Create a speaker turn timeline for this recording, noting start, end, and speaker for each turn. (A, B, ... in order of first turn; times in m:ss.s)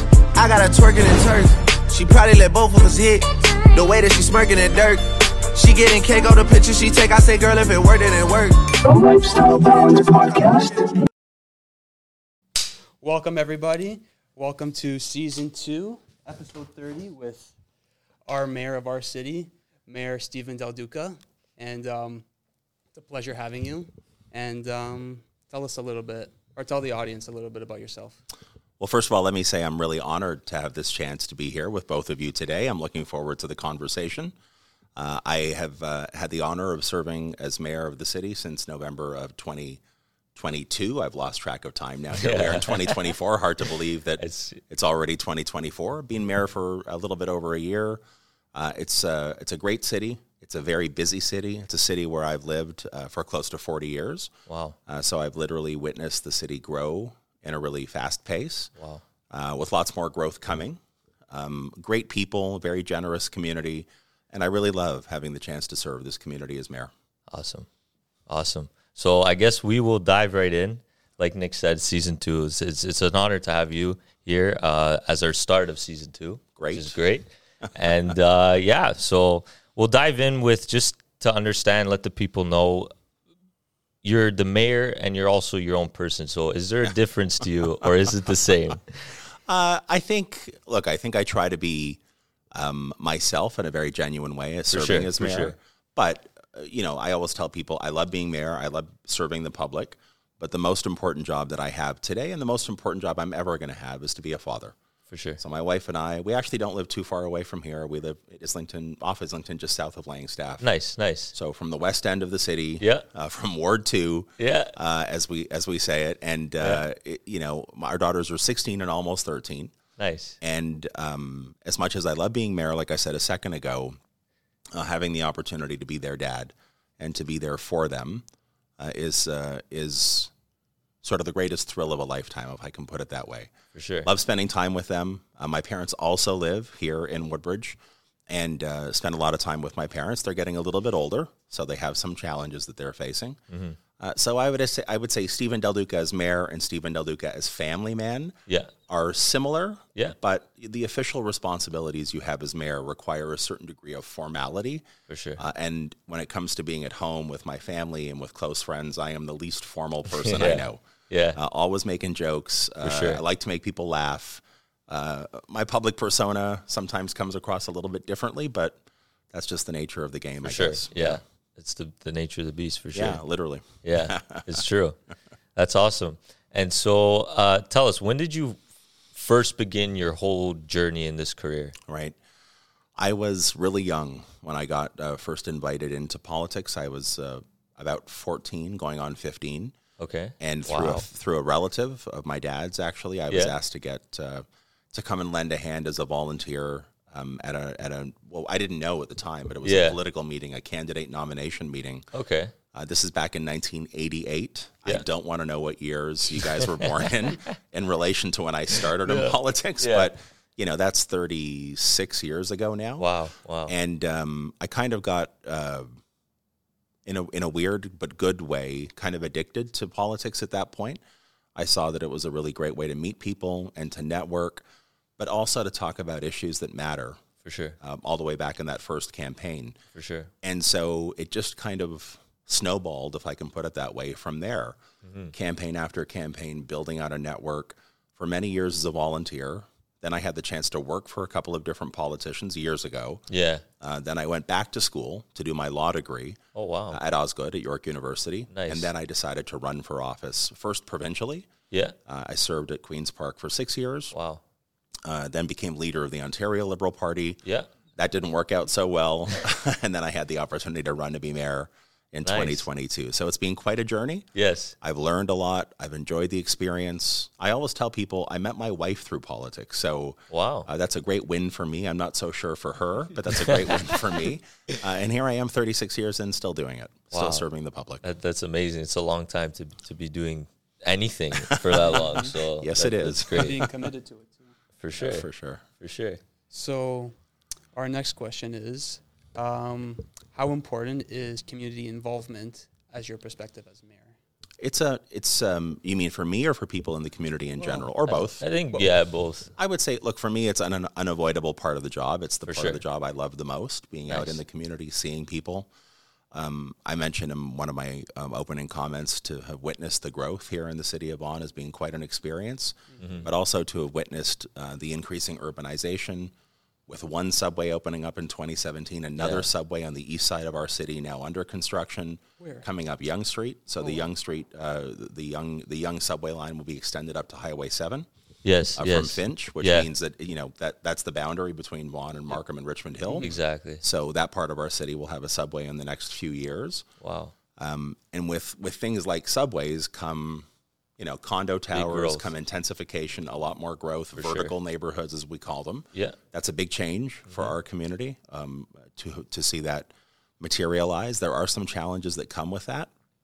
0:00.3-0:08.9 A
0:08.9-0:10.9 B
0:09.5-0:10.3 A
0:13.0-0:17.5 B
0:18.3-0:22.2 B
0:22.9-0:28.2 B
0:28.8-0:34.3 C
0:35.0-0:39.8 C
0:40.4-0:48.0 C
0:42.1-0:43.1 D
0:44.2-0:44.6 D
0:48.5-0:54.3 C
0:54.5-0:54.8 D
0:54.9-0:58.7 C
0:58.8-0:59.0 D
0:59.3-1:06.9 C
1:07.3-1:07.7 D
1:08.3-1:22.9 D
1:16.6-1:17.0 C
1:24.0-1:29.1 D
1:29.4-1:32.0 C
1:32.5-1:44.8 C
1:34.7-1:35.6 D
1:45.1-1:45.4 D
1:45.4-1:50.7 C
1:50.6-1:51.3 D
1:51.3-1:59.7 C
1:52.8-1:53.1 D
1:54.4-1:54.8 D
1:56.6-1:56.8 D
2:00.0-2:00.4 D
2:00.4-2:04.0 C
2:04.7-2:08.2 C
2:08.8-2:10.3 C
2:11.0-2:13.5 C
2:13.7-2:14.1 D
2:14.0-2:23.4 C
2:23.5-2:23.8 D
2:24.0-2:34.9 C
2:28.5-2:28.7 D
2:35.1-2:35.4 D
2:35.4-2:40.8 C
2:40.1-2:41.4 D
2:41.4-2:51.2 C
2:42.8-2:43.2 D
2:50.4-2:53.2 D
2:52.9-2:54.6 C
2:53.8-2:55.0 D
2:55.6-2:58.6 D
2:59.1-3:01.8 D
3:01.9-3:02.2 C
3:03.0-3:09.8 C
3:10.0-3:11.1 D
3:10.4-3:22.1 C
3:13.3-3:13.6 D
3:19.6-3:20.0 D
3:22.1-3:22.5 D
3:22.7-3:33.1 C
3:26.5-3:27.5 D
3:29.0-3:30.1 D
3:33.0-3:33.7 D
3:33.7-3:35.9 C
3:37.0-3:41.0 C
3:41.6-3:44.6 C
3:45.2-3:47.2 C
3:47.4-3:47.8 D
3:47.8-3:49.8 C
3:49.9-3:50.3 D
3:50.4-3:54.8 C
3:55.0-3:55.3 D
3:55.3-4:03.2 C
4:03.3-4:03.6 D
4:03.8-4:06.4 C
4:06.5-4:07.0 D
4:06.9-4:11.5 C
4:08.5-4:08.9 D
4:11.7-4:12.0 D
4:12.1-4:14.2 C
4:14.1-4:14.4 D
4:15.0-4:17.4 C
4:17.4-4:17.7 D
4:18.0-4:24.3 C
4:22.2-4:22.7 D
4:24.4-4:24.8 D
4:24.8-4:38.0 C
4:30.3-4:30.7 D
4:33.3-4:34.0 D
4:37.1-4:37.5 D
4:38.0-4:43.6 D
4:41.4-4:43.7 C
4:41.9-4:42.3 B
4:43.3-4:44.5 B
4:44.8-4:45.3 D
4:45.0-4:45.6 C
4:45.8-4:46.2 D
4:46.5-4:47.1 B
4:47.8-4:54.2 B
4:54.6-4:58.9 C
4:58.1-4:59.5 D
4:59.6-5:05.7 C
5:02.5-5:02.8 D
5:04.1-5:04.4 D
5:06.3-5:16.3 C
5:13.0-5:13.3 D
5:16.9-5:28.1 C
5:19.2-5:19.5 D
5:22.4-5:22.7 B
5:28.4-5:29.9 D
5:28.8-5:36.9 C
5:33.2-5:33.8 D
5:37.0-5:37.4 D
5:37.6-5:40.5 C
5:41.0-5:52.9 C
5:41.7-5:42.3 D
5:44.2-5:44.5 D